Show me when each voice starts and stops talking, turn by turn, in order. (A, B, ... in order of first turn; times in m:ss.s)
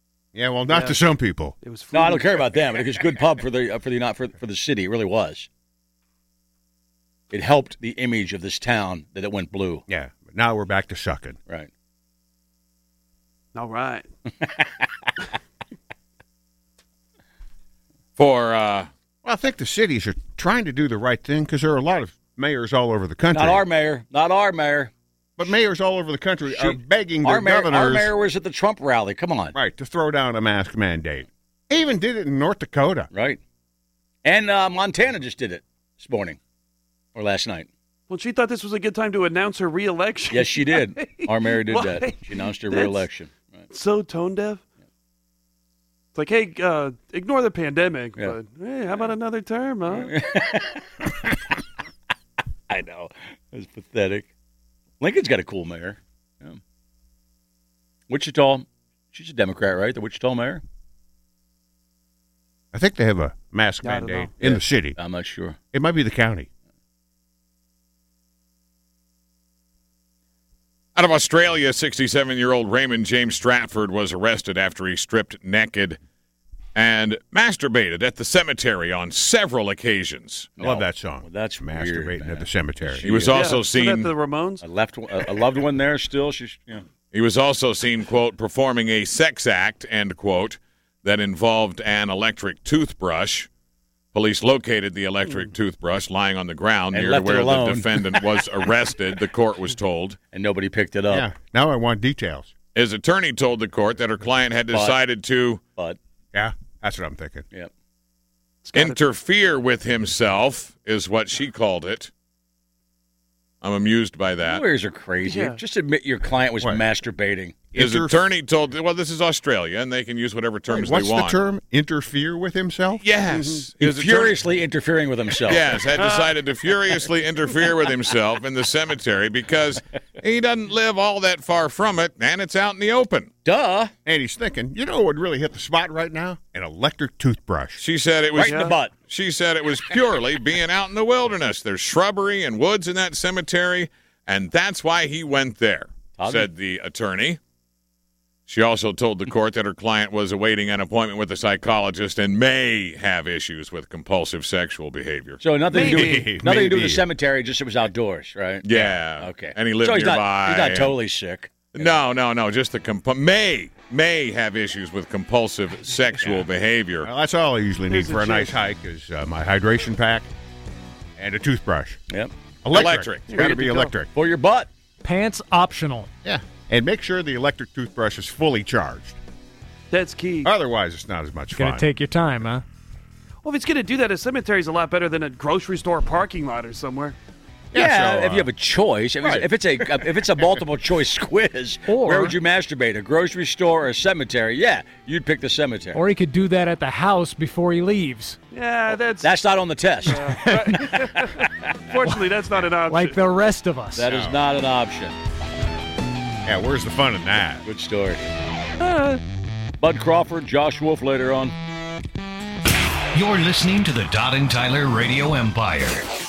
0:00.3-0:01.6 A
0:00.7-0:01.1 B
0:01.6-0:02.5 B
0:01.9-0:05.5 C
0:07.3-0:09.8 C
0:09.9-0:11.4 A
0:13.6-0:14.1 B
0:14.4-0:14.7 C
0:18.2-0:18.9 D
0:19.2-0:23.6 A
0:23.3-0:24.9 C
0:25.4-0:28.1 A
0:26.5-0:29.6 C
0:29.6-0:33.1 A
0:33.1-0:33.4 C
0:34.2-0:36.4 C
0:37.2-0:37.7 C
0:38.1-0:43.0 B
0:40.3-0:43.7 C
0:43.7-0:44.6 B
0:46.2-0:50.1 B
0:49.9-0:51.1 C
0:52.7-0:54.3 C
0:55.0-0:56.6 C
0:58.1-1:00.6 C
1:02.7-1:05.0 A
1:03.8-1:04.4 B
1:04.4-1:05.6 C
1:05.7-1:06.5 A
1:11.0-1:16.0 D
1:16.8-1:20.5 D
1:20.6-1:23.6 C
1:20.6-1:23.2 A
1:23.0-1:24.2 D
1:23.3-1:24.6 B
1:24.6-1:26.8 C
1:27.1-1:33.5 D
1:34.1-1:40.2 D
1:36.9-1:38.2 C
1:40.3-1:41.3 C
1:41.1-1:42.5 A
1:42.8-1:45.6 D
1:44.7-1:45.0 C
1:46.3-1:47.5 A
1:48.6-1:49.0 B
1:48.7-1:52.1 D
1:53.6-1:54.7 D
1:54.4-1:57.6 C
1:55.2-1:55.6 B
1:57.7-1:58.2 A
1:57.8-2:01.4 D
2:00.7-2:03.0 A
2:03.0-2:04.4 D
2:03.3-2:03.6 B
2:03.8-2:05.9 C
2:05.4-2:13.3 D
2:06.0-2:06.4 B
2:13.4-2:13.9 C
2:14.0-2:17.8 A
2:17.8-2:27.4 D
2:18.4-2:18.9 C
2:18.4-2:18.8 B
2:26.2-2:26.5 C
2:28.5-2:35.4 D
2:35.4-2:42.0 C
2:35.7-2:36.2 B
2:35.7-2:37.1 A
2:38.6-2:41.0 D
2:41.7-2:47.1 D
2:46.2-2:46.5 A
2:47.0-2:50.3 A
2:47.9-2:48.6 B
2:51.2-2:52.0 A
2:52.6-2:54.1 A
2:52.7-2:53.3 D
2:53.3-2:54.0 B
2:53.4-2:54.7 C
2:55.0-2:56.1 E
2:56.2-2:59.2 A
2:59.9-3:00.5 B
3:00.4-3:01.9 A
3:01.6-3:02.6 E
3:03.4-3:07.2 B
3:07.7-3:08.5 A
3:07.8-3:16.0 C
3:11.9-3:12.4 E
3:15.9-3:18.4 E
3:18.5-3:19.3 B
3:18.9-3:21.0 C
3:20.1-3:21.1 E
3:20.1-3:23.2 B
3:22.8-3:24.1 E
3:24.0-3:25.2 C
3:24.1-3:24.4 A
3:26.5-3:27.6 A
3:27.6-3:28.3 C
3:28.8-3:29.2 E
3:29.8-3:31.6 C
3:33.1-3:36.1 F